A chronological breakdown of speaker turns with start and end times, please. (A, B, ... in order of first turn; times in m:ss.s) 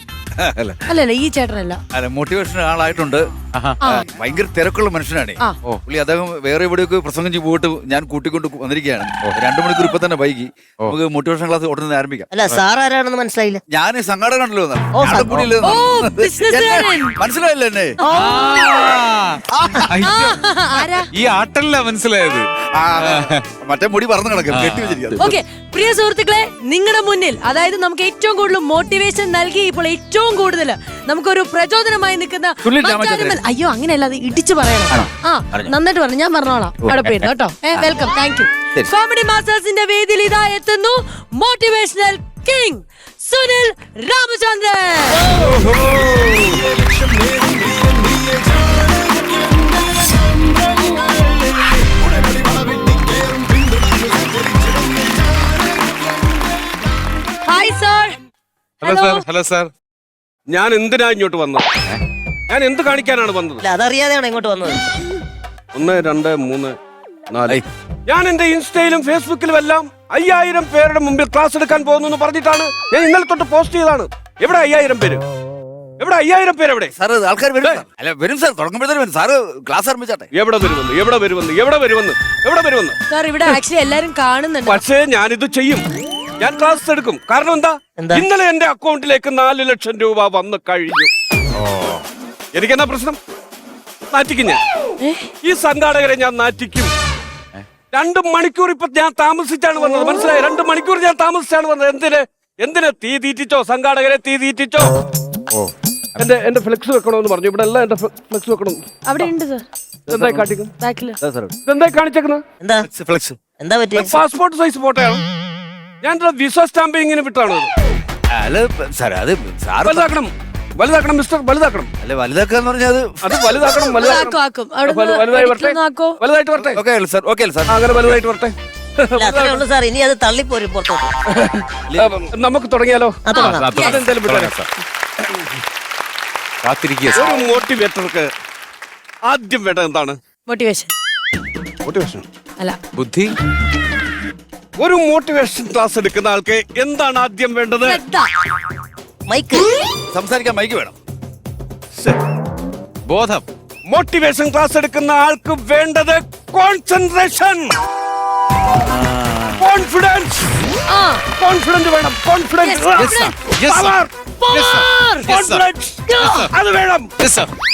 0:00.4-0:00.7 A
0:00.9-0:01.8 B
0:01.9-0:03.2 A
0:03.5-0:03.8 C
0:03.9-0:12.3 A
0:12.3-0:13.6 D
0:13.7-0:18.8 A
0:14.9-0:15.3 D
0:15.6-0:17.2 B
0:18.1-0:20.4 C
0:18.2-0:18.8 B
0:19.5-0:19.9 A
0:20.0-0:21.1 B
0:21.1-0:22.5 C
0:22.8-0:25.4 A
0:23.0-0:23.4 C
0:24.5-0:25.0 C
0:25.2-0:45.4 B
0:32.6-0:33.4 A
0:34.9-0:35.7 A
0:36.8-0:37.1 A
0:45.2-0:46.6 E
0:46.8-0:47.6 A
0:47.7-0:48.5 E
0:52.2-0:52.7 A
0:52.7-0:53.1 E
0:57.5-0:58.2 B
0:58.8-0:59.7 C
0:58.8-0:59.2 B
1:00.5-1:01.7 E
1:02.5-1:03.6 E
1:03.6-1:04.8 D
1:05.7-1:06.8 E
1:07.3-1:15.2 E
1:16.0-1:16.9 E
1:17.0-1:20.3 A
1:20.3-1:23.6 E
1:23.1-1:24.8 B
1:24.7-1:25.8 E
1:26.4-1:31.1 E
1:28.0-1:28.3 D
1:31.6-1:32.0 C
1:32.5-1:33.2 E
1:34.1-1:34.6 E
1:35.0-1:35.3 B
1:35.4-1:36.9 E
1:37.9-1:44.9 E
1:46.2-1:48.8 E
1:49.0-1:49.6 B
1:50.1-1:50.5 A
1:50.1-1:50.7 E
1:50.8-1:51.2 B
1:51.2-1:51.6 A
1:51.7-1:52.4 E
1:52.6-1:52.9 D
1:52.9-1:53.4 A
1:53.6-1:54.1 D
1:53.9-1:55.2 E
1:56.0-1:57.7 E
1:58.3-2:00.1 A
1:59.8-2:01.9 E
2:02.0-2:03.5 A
2:03.2-2:04.4 E
2:04.0-2:06.2 B
2:04.9-2:06.8 E
2:06.6-2:08.2 A
2:07.7-2:09.6 E
2:09.2-2:11.1 D
2:11.3-2:13.2 E
2:13.3-2:13.7 D
2:13.3-2:14.0 B
2:13.4-2:14.7 C
2:13.8-2:14.6 E
2:16.6-2:17.4 C
2:17.1-2:18.3 E
2:19.3-2:20.2 E
2:20.5-2:20.9 B
2:21.8-2:22.2 E
2:23.0-2:23.3 C
2:24.8-2:28.0 E
2:27.8-2:28.3 B
2:29.3-2:29.7 D
2:30.1-2:30.9 A
2:32.0-2:32.2 E
2:33.1-2:33.4 C
2:33.9-2:37.8 E
2:38.9-2:39.6 C
2:39.6-2:40.6 E
2:40.9-2:41.2 B
2:41.4-2:44.1 E
2:42.6-2:43.4 B
2:43.0-2:44.0 C
2:44.4-2:45.3 B
2:44.5-2:45.6 C
2:45.2-2:47.1 E
2:46.1-2:46.4 B
2:46.2-2:46.5 C
2:47.2-2:47.5 C